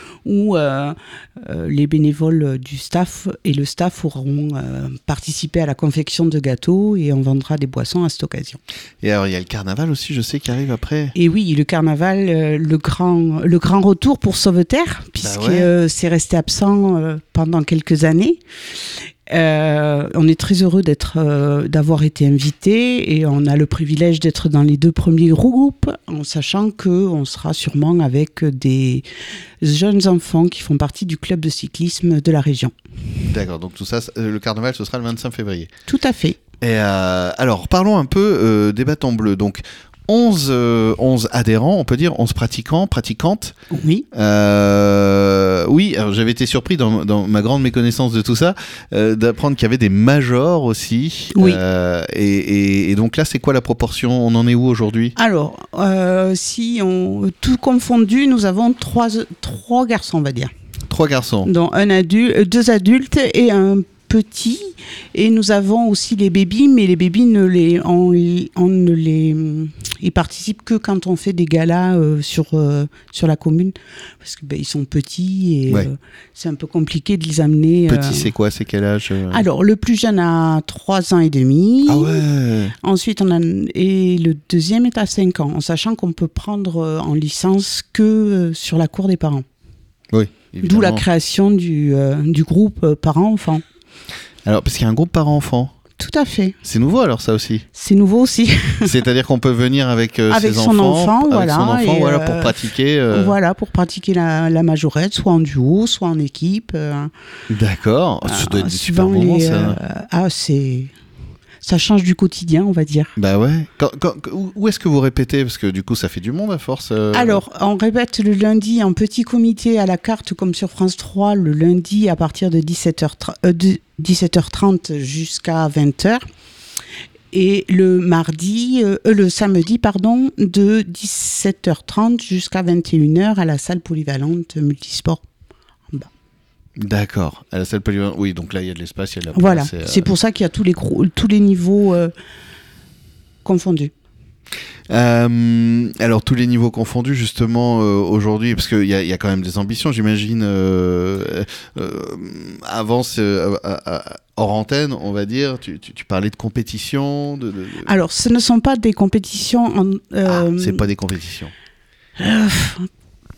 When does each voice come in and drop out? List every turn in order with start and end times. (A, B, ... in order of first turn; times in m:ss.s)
0:00.2-0:08.6 A
0:09.0-0:11.1 B
0:11.1-0:18.4 A
0:15.2-0:15.7 B
0:19.3-0:29.0 A
0:29.6-0:32.7 A
0:33.3-0:35.7 B
0:35.9-0:36.4 A
0:36.6-0:43.5 B
0:43.7-0:44.1 A
0:44.1-0:55.1 B
0:51.3-0:51.6 A
0:55.2-1:00.5 A
1:00.9-1:01.5 B
1:01.4-1:18.3 A
1:17.9-1:19.4 B
1:19.3-1:22.2 A
1:21.9-1:22.7 B
1:22.8-1:29.4 A
1:30.1-1:31.0 B
1:30.6-1:33.6 A
1:34.4-1:35.7 B
1:36.0-1:36.6 A
1:36.6-1:37.6 B
1:37.7-1:38.9 A
1:38.8-1:43.4 B
1:40.3-1:47.1 A
1:47.5-1:49.8 B
1:48.2-1:50.9 A
1:51.6-1:53.1 A
1:53.2-1:57.4 B
1:57.1-2:06.2 A
2:07.3-2:15.2 A
2:16.8-2:20.1 B
2:19.3-2:22.1 A
2:23.4-2:23.9 A
2:24.9-2:37.9 B
2:37.8-2:40.8 A
2:40.2-2:41.5 B
2:42.2-2:42.9 A